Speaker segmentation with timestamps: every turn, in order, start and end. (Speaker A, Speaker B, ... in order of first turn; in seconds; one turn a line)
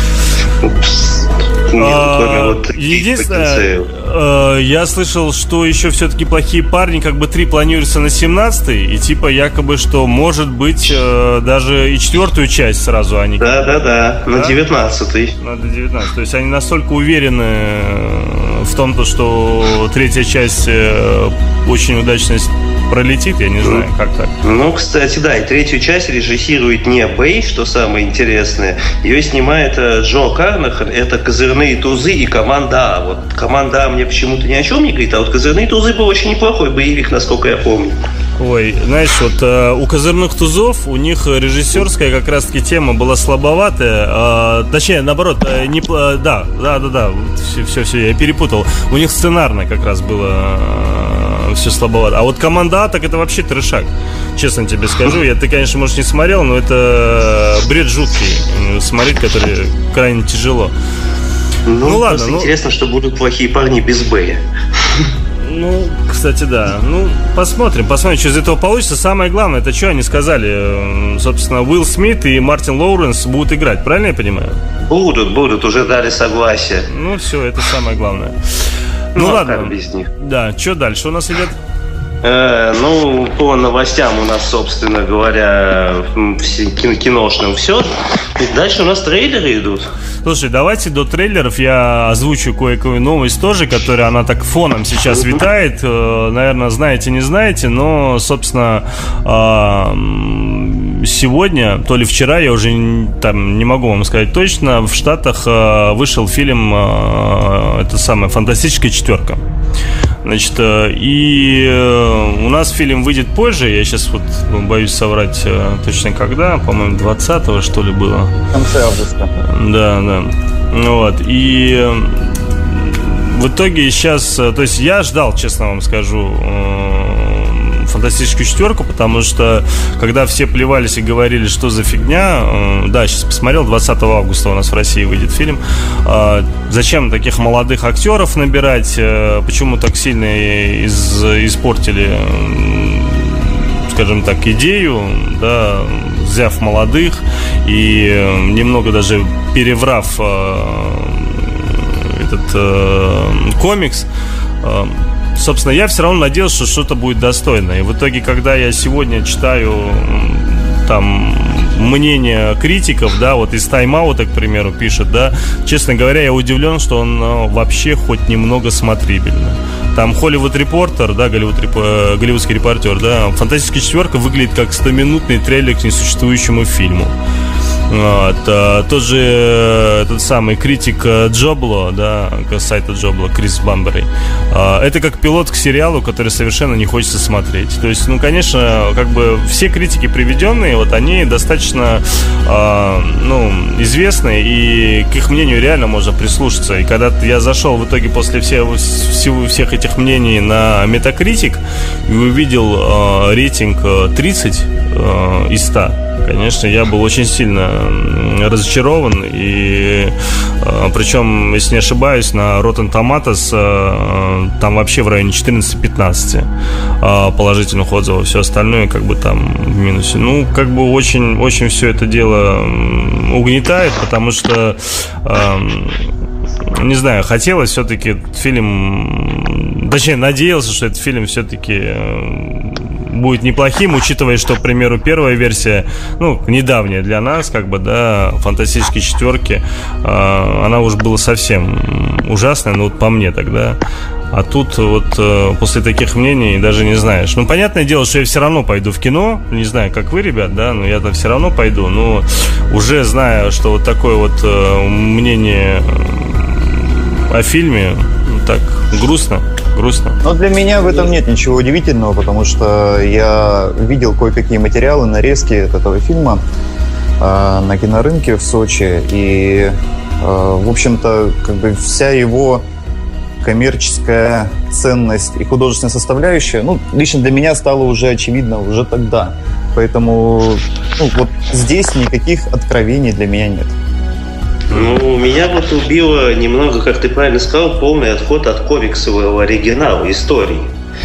Speaker A: 0.6-3.9
Speaker B: 1.8-13.6
Speaker A: 13.4-15.4
Speaker B: 14.3-14.6
Speaker B: 15.4-24.3
Speaker A: 24.4-38.0
Speaker B: 38.4-60.7
Speaker A: 61.6-65.1
Speaker B: 61.8-62.5
Speaker B: 65.4-74.6
Speaker A: 74.8-76.9
Speaker B: 76.9-78.4
Speaker B: 79.1-81.6
Speaker A: 79.2-80.1
Speaker A: 82.2-89.9
Speaker B: 90.2-109.4
Speaker A: 95.1-95.4
Speaker B: 110.2-118.3
Speaker C: 118.5-119.3
Speaker B: 119.4-154.1
Speaker B: 154.6-177.1
Speaker B: 177.9-216.4
Speaker B: 217.0-226.1
Speaker B: 226.7-243.8
Speaker B: 244.3-260.2
Speaker C: 260.2-266.4
Speaker C: 267.2-272.6
Speaker C: 273.4-283.7
Speaker B: 284.7-285.0
Speaker A: 284.7-290.7